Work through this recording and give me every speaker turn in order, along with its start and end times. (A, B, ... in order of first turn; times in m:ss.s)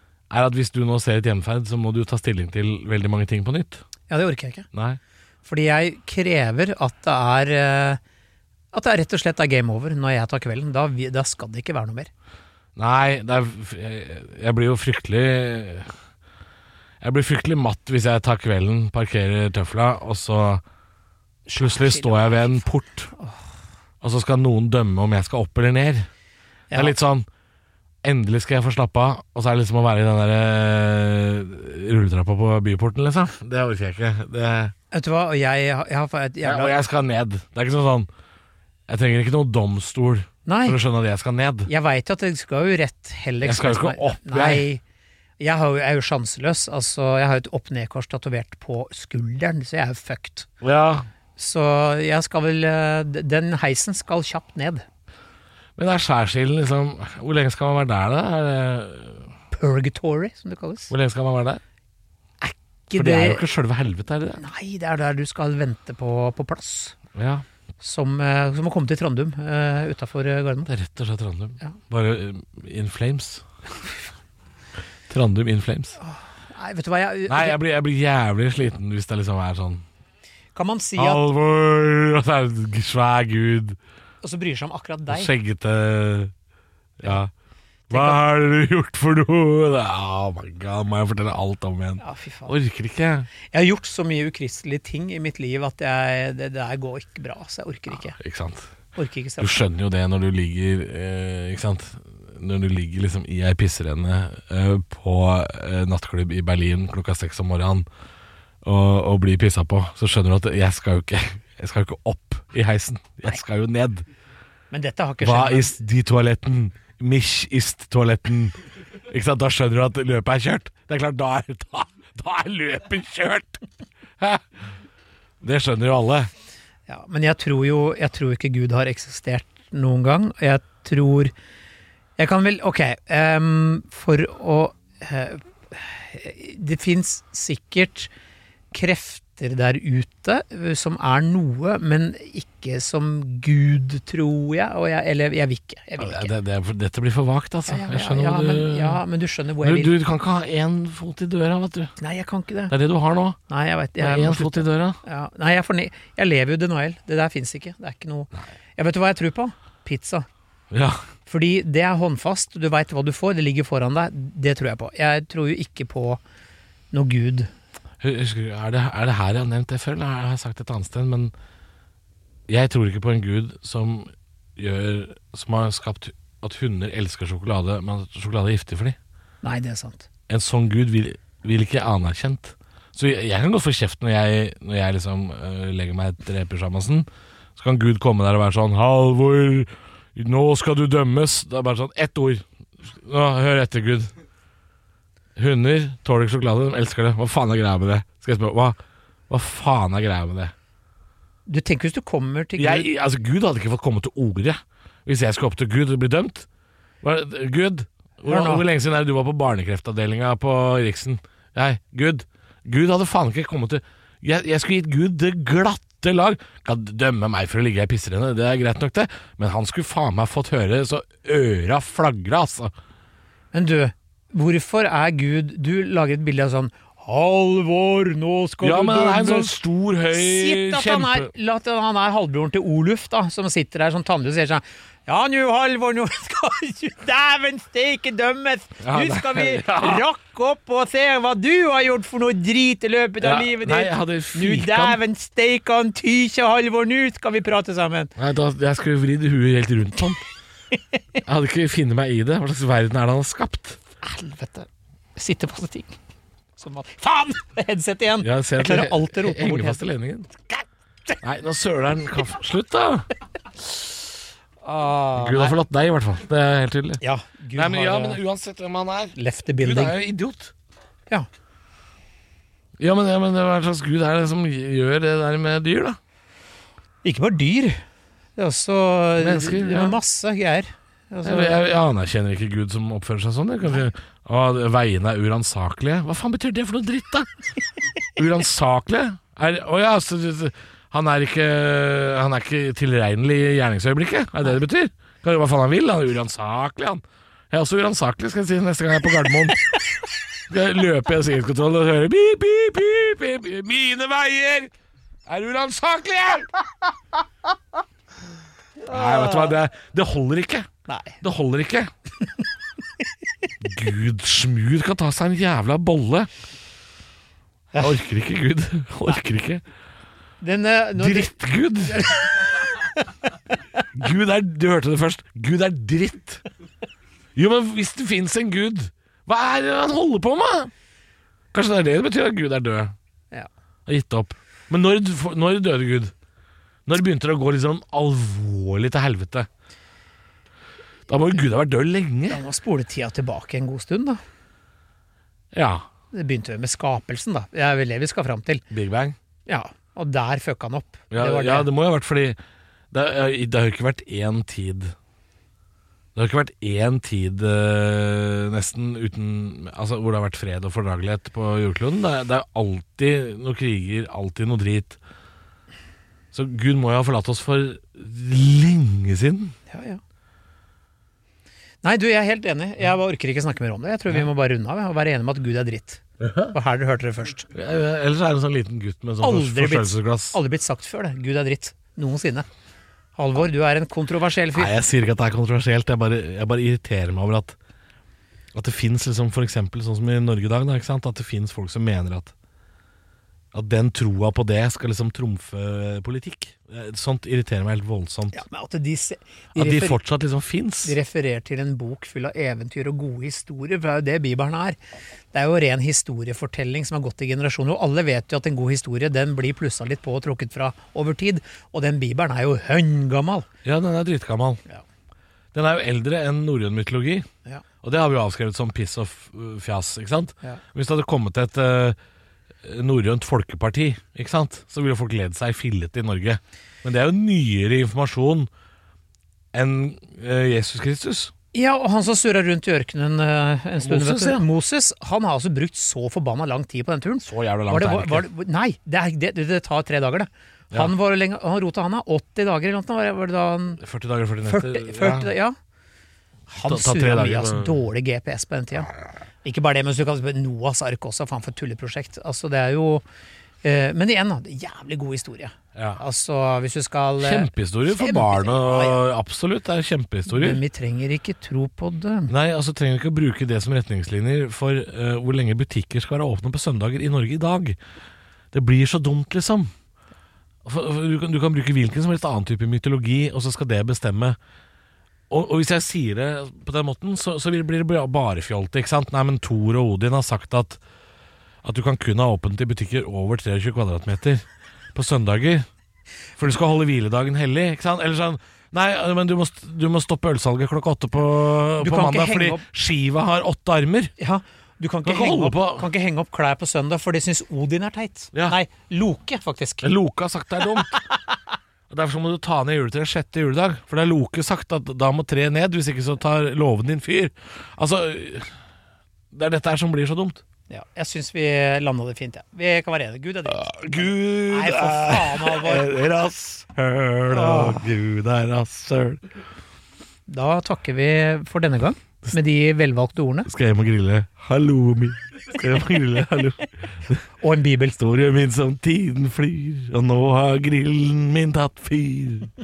0:00.3-0:03.8 A
0:04.1-0:04.7 B
0:04.7-0:05.0 A
0:05.4-0:08.0 B
0:08.7-0:12.1 B
0:12.8-0:15.9 A
0:17.0-0:20.6 A
0:21.5-0:23.4 B
0:21.6-0:23.1 A
0:24.0-0:26.1 A
0:26.7-0:27.0 B
0:26.7-0:27.3 A
0:28.0-0:34.7 A
0:34.9-0:36.8 B
0:36.4-0:38.1 A
0:38.9-0:41.7 A
0:40.5-0:40.8 B
0:41.7-0:44.8 B
0:43.4-0:44.7 A
0:45.4-0:50.5 B
0:50.6-0:51.1 A
0:51.4-0:54.8 B
0:55.8-0:59.3 A
0:59.5-1:00.9 B
1:00.9-1:01.6 A
1:02.4-1:03.4 B
1:03.0-1:04.4 A
1:04.4-1:07.0 B
1:07.2-1:07.4 A
1:07.8-1:10.7 B
1:10.7-1:13.5 A
1:15.1-1:16.0 A
1:16.0-1:17.6 B
1:17.3-1:19.8 A
1:20.6-1:21.3 B
1:21.0-1:23.8 A
1:24.2-1:25.3 B
1:25.1-1:26.3 A
1:27.0-1:27.3 A
1:27.9-1:28.2 B
1:27.9-1:33.3 A
1:32.0-1:32.6 B
1:33.5-1:38.2 B
1:38.1-1:38.7 A
1:39.0-1:39.6 B
1:39.4-1:47.9 A
1:48.6-1:54.1 A
1:54.7-1:55.7 B
1:55.2-1:58.6 A
1:59.1-2:03.6 A
2:04.2-2:04.4 A
2:05.4-2:06.3 A
2:06.9-2:11.3 B
2:12.2-2:18.1 B
2:18.7-2:26.3 B
2:26.0-2:29.0 A
2:27.7-2:29.9 B
2:29.6-2:31.9 A
2:32.0-2:32.7 B
2:32.7-2:33.4 A
2:33.5-2:40.3 B
2:34.0-2:35.0 A
2:40.7-2:41.0 A
2:41.3-2:46.2 B
2:46.9-2:47.5 B
2:48.0-2:51.3 A
2:52.5-2:59.0 A
2:59.4-3:00.1 B
3:00.3-3:14.1 A
3:15.4-3:18.8 A
3:19.3-3:20.5 A
3:21.5-3:22.9 B
3:22.6-3:26.5 A
3:27.0-3:42.7 A
3:28.3-3:28.6 B
3:43.5-3:49.6 B
3:48.6-3:51.3 A
3:50.1-4:08.1 B
3:58.8-4:00.0 A
4:03.2-4:05.0 A
4:08.2-4:10.2 A
4:11.3-4:13.8 A
4:14.0-4:16.0 B
4:16.6-4:19.8 B
4:18.2-4:20.3 A
4:21.2-4:23.1 A
4:24.6-4:25.6 B
4:25.2-4:27.0 A
4:27.0-4:28.2 B
4:27.6-4:30.5 A
4:29.2-4:30.0 B
4:32.8-4:36.0 A
4:37.0-4:37.8 B
4:38.4-4:41.6 B
4:39.2-4:40.0 A
4:41.2-4:47.3 A
4:48.2-4:59.7 A
5:00.5-5:04.7 A
5:05.3-5:06.5 A
5:08.9-5:09.5 B
5:08.9-5:10.7 A
5:10.9-5:11.2 B
5:11.2-5:11.9 A
5:13.6-5:16.3 A
5:17.8-5:19.6 A
5:20.4-5:21.3 B
5:21.0-5:22.2 A
5:21.9-5:22.5 B
5:24.0-5:26.4 A
5:27.4-5:30.7 A
5:31.5-5:32.9 A
5:33.9-5:36.1 A
5:36.9-5:39.5 A
5:41.1-5:42.4 A
5:42.3-5:44.2 B
5:45.5-5:45.9 A
5:46.1-5:48.6 B
5:48.7-5:49.2 A
5:49.5-5:51.7 B
5:51.1-5:52.4 A
5:52.9-5:54.9 A
5:56.2-6:05.0 A
6:06.3-6:09.6 A
6:09.7-6:10.0 B
6:11.8-6:17.5 B
6:16.2-6:16.5 A
6:17.5-6:20.4 A
6:19.2-6:22.5 B
6:23.2-6:24.7 B
6:24.6-6:27.6 A
6:28.5-6:32.3 A
6:33.5-6:38.4 A
6:38.3-6:40.0 B
6:39.6-6:41.0 A
6:40.8-6:44.8 B
6:45.3-6:53.5 B
6:53.6-6:54.6 A
6:55.5-6:57.3 A
6:57.8-7:02.0 A
7:02.6-7:08.5 A
7:09.5-7:11.3 A
7:11.5-7:23.8 B
7:13.8-7:14.4 A
7:17.2-7:18.3 A
7:23.8-7:25.3 A
7:24.4-7:25.6 B
7:26.5-7:28.9 B
7:26.6-7:27.8 A
7:29.4-7:33.0 B
7:33.6-7:39.0 B
7:35.8-7:36.0 A
7:37.2-7:40.6 A
7:40.3-7:42.3 B
7:42.3-7:47.8 A
7:48.5-7:49.7 A
7:50.6-7:54.4 A
7:55.3-8:00.8 A
8:01.6-8:05.7 A
8:06.4-8:14.1 A
8:11.8-8:12.6 B
8:14.2-8:19.9 B
8:15.0-8:15.9 A
8:19.8-8:21.0 A
8:20.6-8:21.3 B
8:21.9-8:28.5 A
8:29.3-8:30.4 A
8:30.7-8:35.9 B
8:33.5-8:39.2 A
8:37.3-8:37.9 B
8:40.3-8:43.5 B
8:43.5-8:47.2 A
8:47.4-8:48.0 B
8:48.0-8:52.5 A